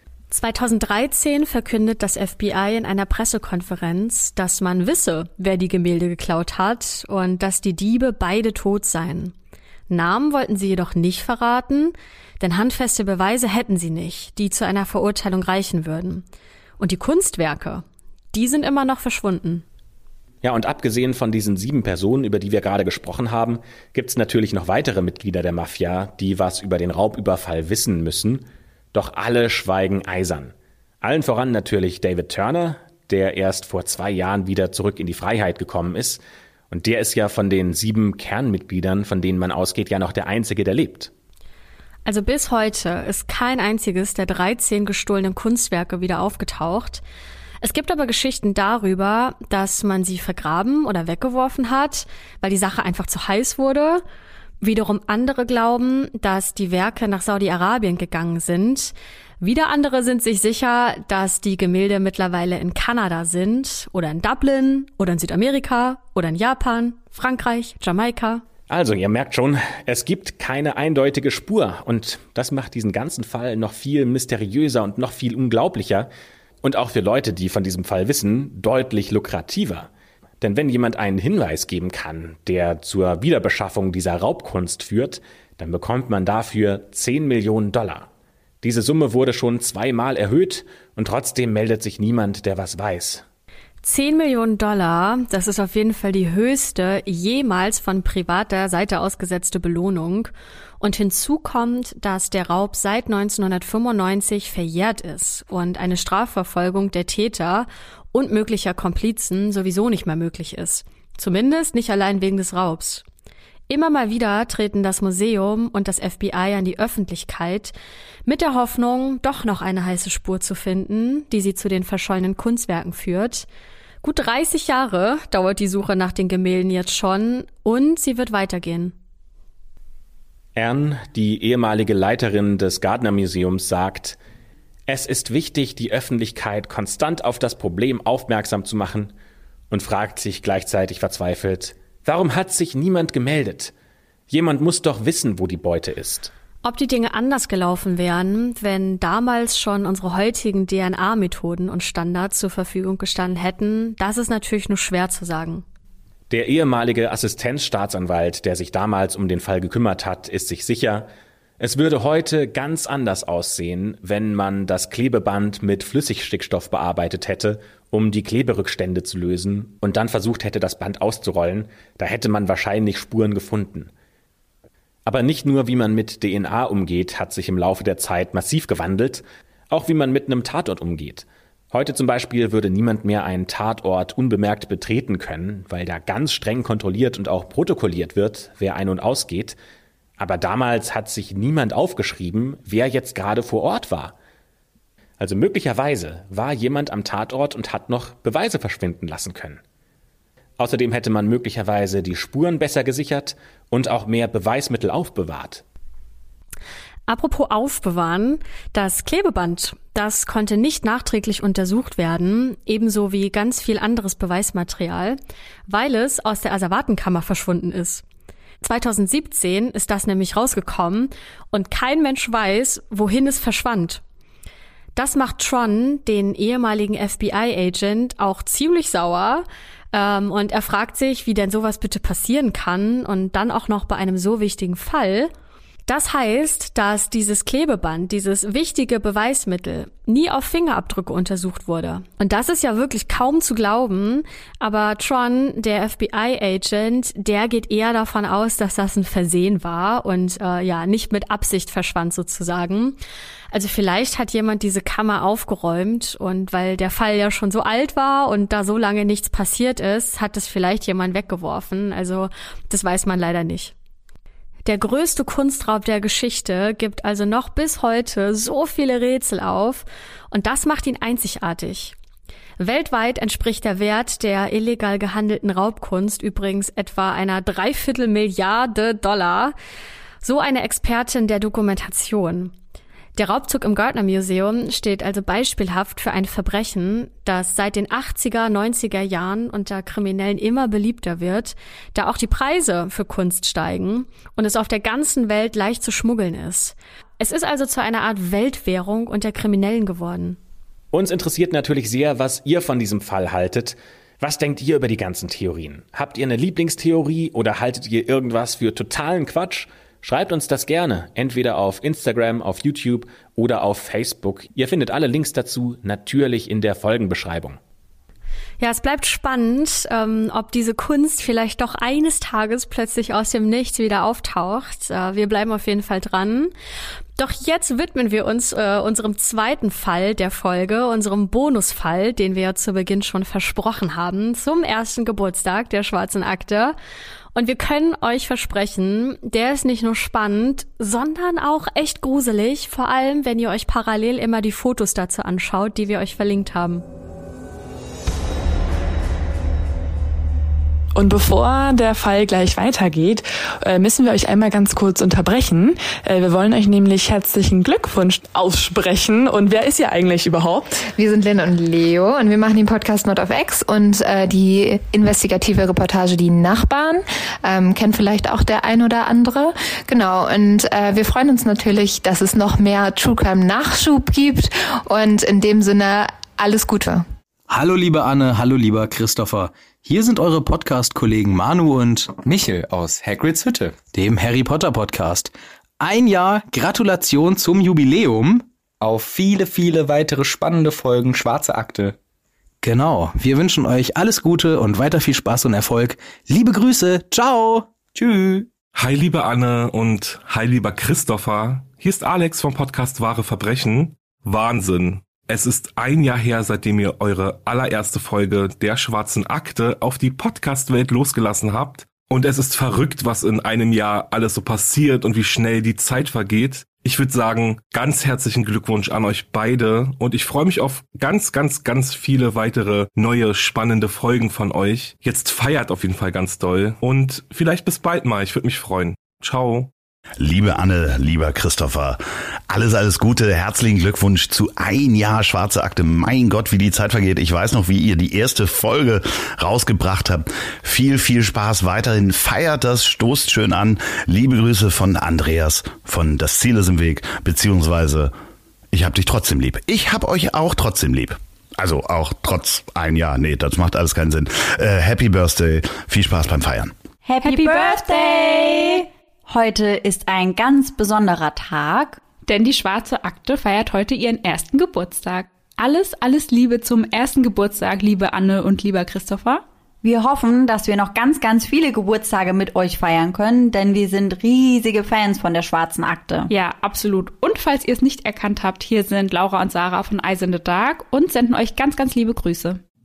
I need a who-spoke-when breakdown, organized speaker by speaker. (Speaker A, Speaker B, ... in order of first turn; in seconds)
Speaker A: 0.3-9.3, 9.9-16.2, 16.8-19.6, 42.1-47.0, 47.6-54.0, 54.6-68.4, 93.8-113.0, 113.7-117.7, 118.3-123.5, 124.0-128.9, 146.6-155.6, 207.1-218.0, 218.6-224.0, 225.0-235.3, 235.9-253.0, 253.5-263.7, 264.6-271.9, 272.6-279.6, 280.2-282.5, 283.2-300.4, 318.6-326.5, 327.2-336.8, 337.4-346.8
Speaker B: 20.4-41.1, 68.7-76.1, 76.6-79.9, 80.4-88.1, 88.6-93.2, 130.6-134.2, 134.9-139.1, 139.7-143.7, 144.3-146.3, 156.3-173.9, 175.1-189.6, 190.2-194.2, 195.2-199.6, 200.6-205.6, 300.9-317.6
Speaker C: 350.9-360.7
Speaker D: 360.8-377.1
Speaker E: 377.5-382.2, 383.9-388.4, 392.6-398.5
Speaker F: 382.2-383.8, 388.8-392.0
Speaker G: 398.7-429.7
Speaker H: 430.2-432.0, 432.5-448.1, 448.7-456.7
Speaker I: 457.1-462.0, 469.8-476.3
Speaker J: 457.2-458.4, 462.2-469.4, 476.3-482.6